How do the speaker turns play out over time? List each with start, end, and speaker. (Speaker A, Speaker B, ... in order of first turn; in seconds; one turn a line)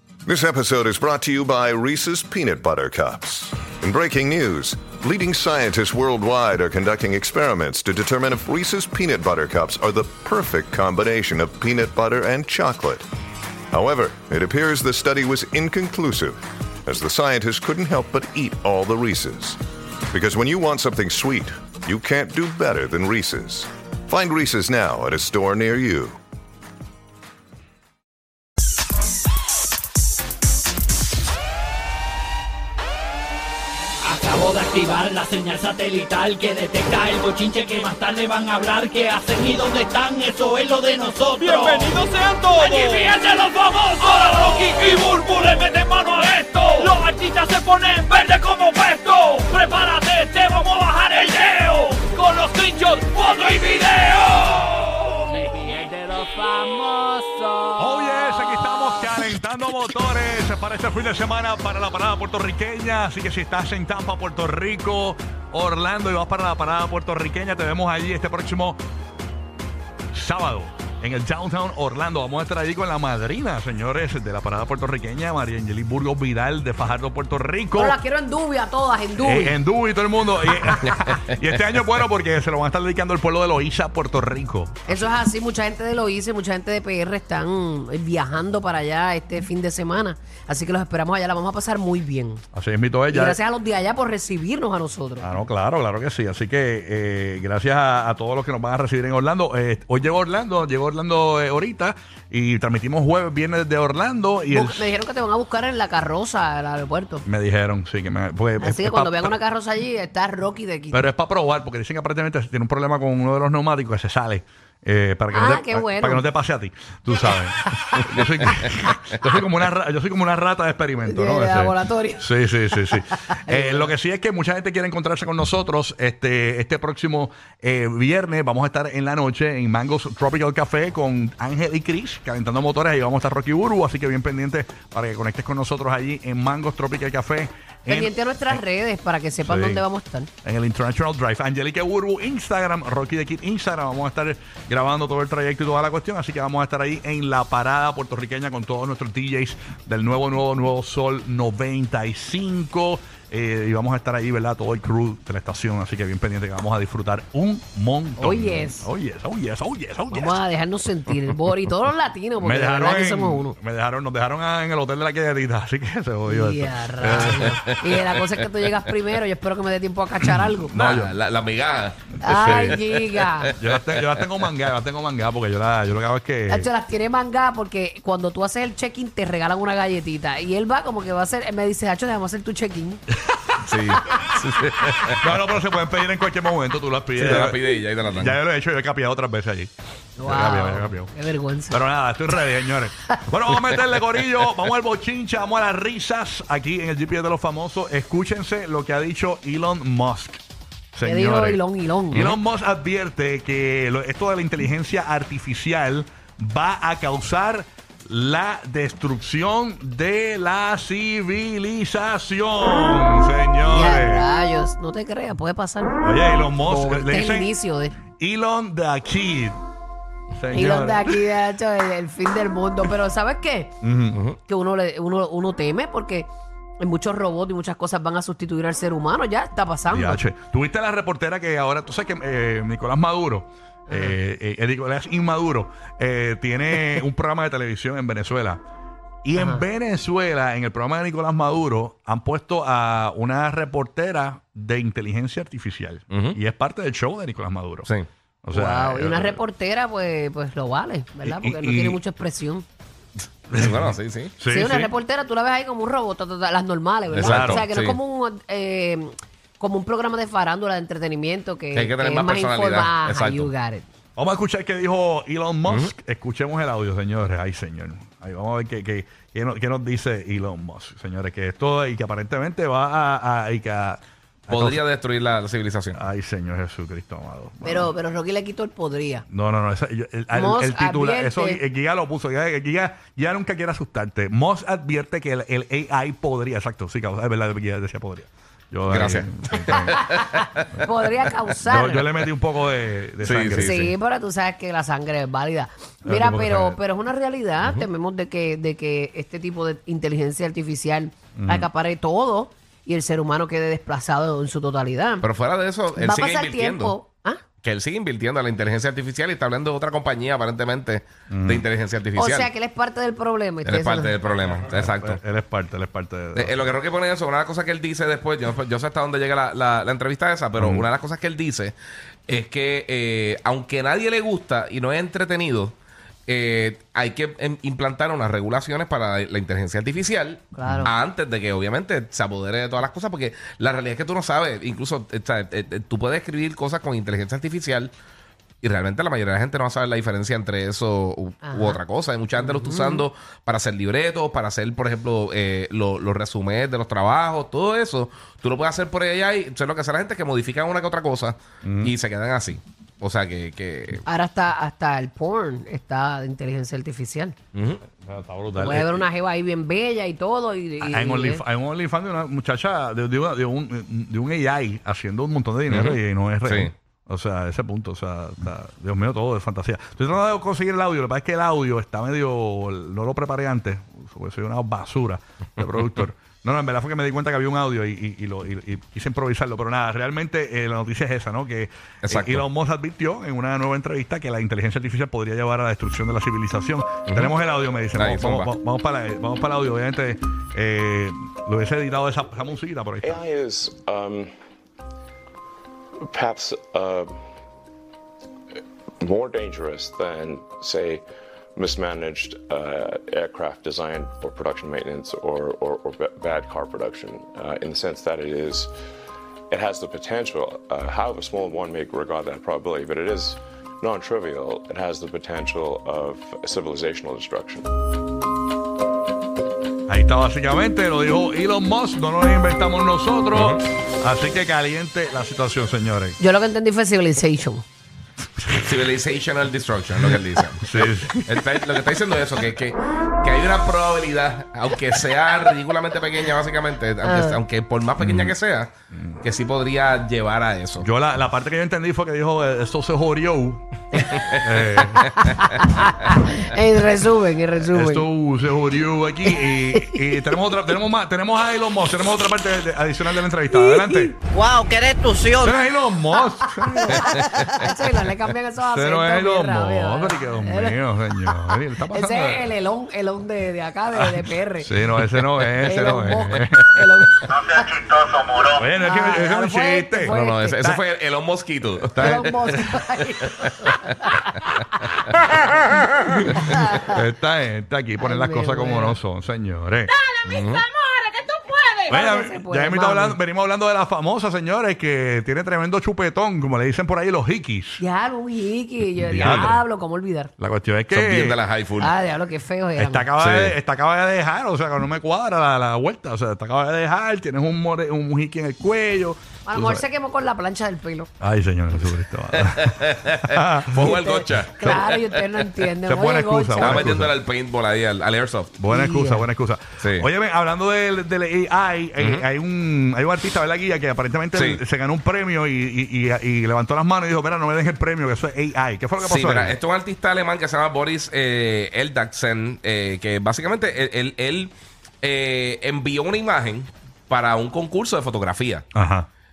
Speaker A: 0.2-13.1
Speaker A: 13.7-19.6
Speaker A: 20.1-26.2
Speaker B: 34.0-58.5
Speaker C: 41.4-43.1
Speaker C: 57.8-68.8
Speaker C: 70.1-78.0
Speaker D: 77.8-79.6
Speaker C: 79.2-85.1
Speaker E: 80.6-81.3
Speaker D: 84.9-92.4
Speaker C: 92.5-93.4
Speaker D: 93.1-95.3
Speaker C: 95.2-104.9
Speaker D: 104.5-107.2
Speaker C: 107.2-109.3
Speaker D: 108.6-111.0
Speaker C: 110.9-138.6
Speaker D: 115.3-116.2
Speaker D: 117.8-118.8
Speaker D: 121.0-123.9
Speaker D: 137.8-140.3
Speaker C: 139.4-139.8
Speaker C: 140.4-160.4
Speaker D: 158.2-158.9
Speaker D: 160.1-163.6
Speaker C: 162.4-167.6
Speaker D: 166.2-170.7
Speaker E: 167.4-168.0
Speaker C: 170.5-171.1
Speaker E: 170.7-174.2
Speaker C: 172.2-172.8
Speaker D: 172.2-173.5
Speaker C: 173.6-176.7
Speaker D: 176.5-183.0
Speaker E: 183.6-185.2
Speaker C: 185.2-187.6
Speaker E: 187.2-188.4
Speaker C: 188.1-189.7
Speaker D: 190.2-191.8
Speaker C: 190.2-191.1
Speaker C: 191.7-200.4
Speaker C: 200.9-214.2
Speaker D: 201.0-202.2
Speaker E: 202.1-202.4
Speaker D: 213.7-216.1
Speaker C: 216.0-217.5
Speaker D: 216.6-217.9
Speaker C: 218.2-219.6
Speaker C: 220.3-221.2
Speaker D: 220.5-223.7
Speaker C: 223.8-224.2
Speaker E: 224.1-224.4
Speaker D: 224.5-230.2
Speaker C: 229.9-238.6
Speaker D: 233.9-234.2
Speaker C: 239.2-247.9
Speaker D: 239.4-239.6
Speaker E: 246.1-246.4
Speaker C: 248.4-249.4
Speaker D: 248.5-252.7
Speaker C: 251.2-252.0
Speaker C: 253.5-254.9
Speaker E: 253.5-254.3
Speaker D: 254.5-263.9
Speaker E: 257.1-258.0
Speaker C: 257.2-257.6
Speaker E: 261.7-263.5
Speaker C: 264.1-274.8
Speaker E: 265.7-265.9
Speaker E: 274.5-276.0
Speaker C: 275.9-277.9
Speaker D: 277.6-279.2
Speaker C: 279.3-290.1
Speaker D: 280.3-281.6
Speaker E: 288.9-290.6
Speaker D: 289.8-292.1
Speaker C: 291.6-293.8
Speaker E: 293.2-293.9
Speaker D: 293.6-305.2
Speaker C: 296.0-296.8
Speaker C: 301.4-301.7
Speaker E: 305.2-306.9
Speaker D: 305.9-307.4
Speaker E: 307.6-312.5
Speaker C: 311.3-311.6
Speaker D: 312.1-314.2
Speaker E: 313.6-315.2
Speaker C: 314.5-316.7
Speaker E: 316.3-321.7
Speaker C: 320.6-320.9
Speaker E: 322.3-325.8
Speaker E: 326.3-337.9
Speaker D: 330.5-330.9
Speaker C: 330.6-330.9
Speaker E: 338.6-354.0
Speaker D: 341.4-341.8
Speaker D: 342.4-343.0
Speaker C: 351.6-351.9
Speaker D: 354.1-357.3
Speaker E: 357.5-357.8
Speaker C: 358.0-359.1
Speaker D: 358.5-361.4
Speaker C: 360.8-393.2
Speaker E: 365.7-366.7
Speaker E: 382.0-382.4
Speaker E: 387.1-387.3
Speaker E: 387.9-388.5
Speaker F: 393.0-394.3
Speaker F: 396.0-397.1
Speaker F: 399.0-401.0
Speaker F: 401.6-408.7
Speaker F: 409.5-417.7
Speaker C: 419.9-426.2
Speaker E: 423.3-423.6
Speaker D: 426.2-427.6
Speaker E: 428.6-440.9
Speaker C: 430.1-431.5
Speaker D: 437.0-437.4
Speaker C: 438.0-438.4
Speaker C: 438.9-439.2
Speaker C: 440.8-443.6
Speaker C: 444.4-445.1
Speaker D: 445.6-448.1
Speaker C: 447.6-454.1
Speaker D: 449.3-450.0
Speaker B: 454.3-455.5
Speaker C: 455.4-457.1
Speaker D: 456.7-464.7
Speaker E: 456.9-457.5
Speaker C: 458.6-462.4
Speaker C: 463.9-466.8
Speaker D: 465.6-467.8
Speaker E: 466.1-466.4
Speaker C: 468.5-470.8
Speaker D: 468.6-470.6
Speaker E: 470.1-472.8
Speaker C: 471.8-472.5
Speaker D: 472.0-474.2
Speaker E: 473.3-474.1
Speaker C: 476.3-479.9
Speaker D: 476.4-476.8
Speaker D: 478.0-479.0
Speaker B: 480.1-481.8
Speaker E: 480.2-480.6
Speaker D: 481.9-483.2
Speaker C: 481.9-487.8
Speaker D: 487.8-490.3
Speaker C: 489.0-489.6
Speaker E: 489.2-489.5
Speaker C: 490.4-491.4
Speaker E: 490.9-491.9
Speaker D: 491.8-493.1
Speaker C: 492.8-499.8
Speaker E: 493.2-493.5
Speaker D: 499.4-501.1
Speaker C: 501.2-504.0
Speaker E: 502.3-505.1
Speaker D: 503.8-506.9
Speaker C: 504.6-504.9
Speaker C: 505.9-507.1
Speaker E: 506.6-508.5
Speaker C: 508.6-519.6
Speaker D: 508.7-509.2
Speaker E: 509.8-510.1
Speaker E: 512.0-512.2
Speaker E: 514.3-514.6
Speaker E: 519.0-528.6
Speaker C: 528.7-529.1